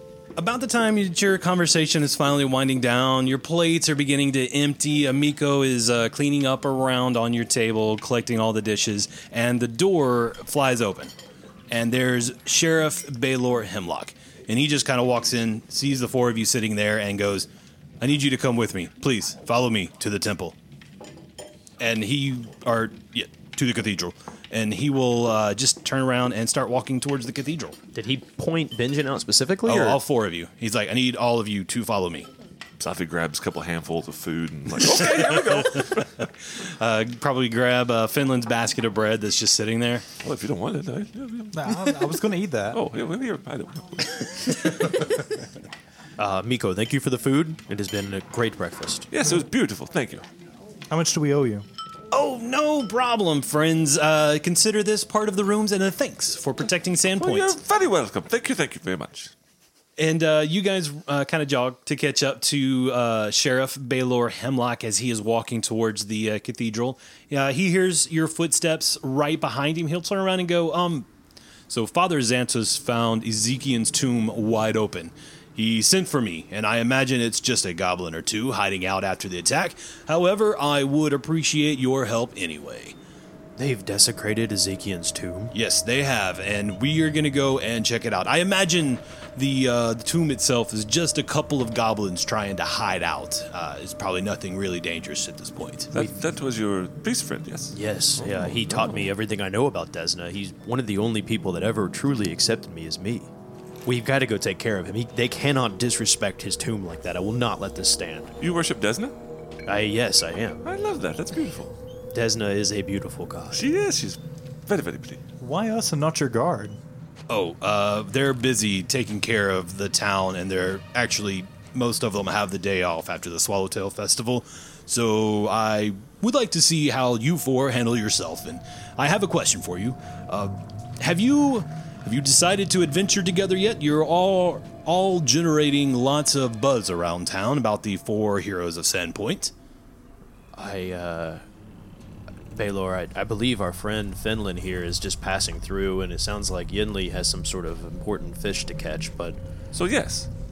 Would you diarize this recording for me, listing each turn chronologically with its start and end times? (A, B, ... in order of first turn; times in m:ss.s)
0:00.4-0:11.1 A
0:11.7-0:17.5 A
0:18.0-0:20.6 A
0:21.8-0:27.8 A
0:27.9-0:30.0 B
0:29.6-0:32.3 A
0:32.8-0:36.3 C
0:34.9-0:40.1 A
0:40.2-0:41.9 C
0:41.5-0:42.8 D
0:42.7-0:45.0 C
0:46.2-0:49.1 B
0:49.1-0:50.2 C
0:50.9-0:51.7 D
0:52.1-0:57.6 A
0:57.2-0:59.3 C
1:00.0-1:11.1 A
1:11.7-1:23.0 A
1:23.6-1:25.5 B
1:25.5-1:35.9 A
1:35.9-1:39.1 C
1:35.9-1:36.2 B
1:37.7-1:43.3 B
1:43.8-1:48.3 B
1:48.4-1:49.1 C
1:49.7-1:50.6 B
1:50.6-1:51.7 C
1:52.1-1:53.6 B
1:53.5-1:55.2 C
1:55.4-1:56.8 D
1:57.3-2:19.5 A
2:20.6-2:21.4 B
2:22.5-2:29.4 B
2:29.7-2:30.3 C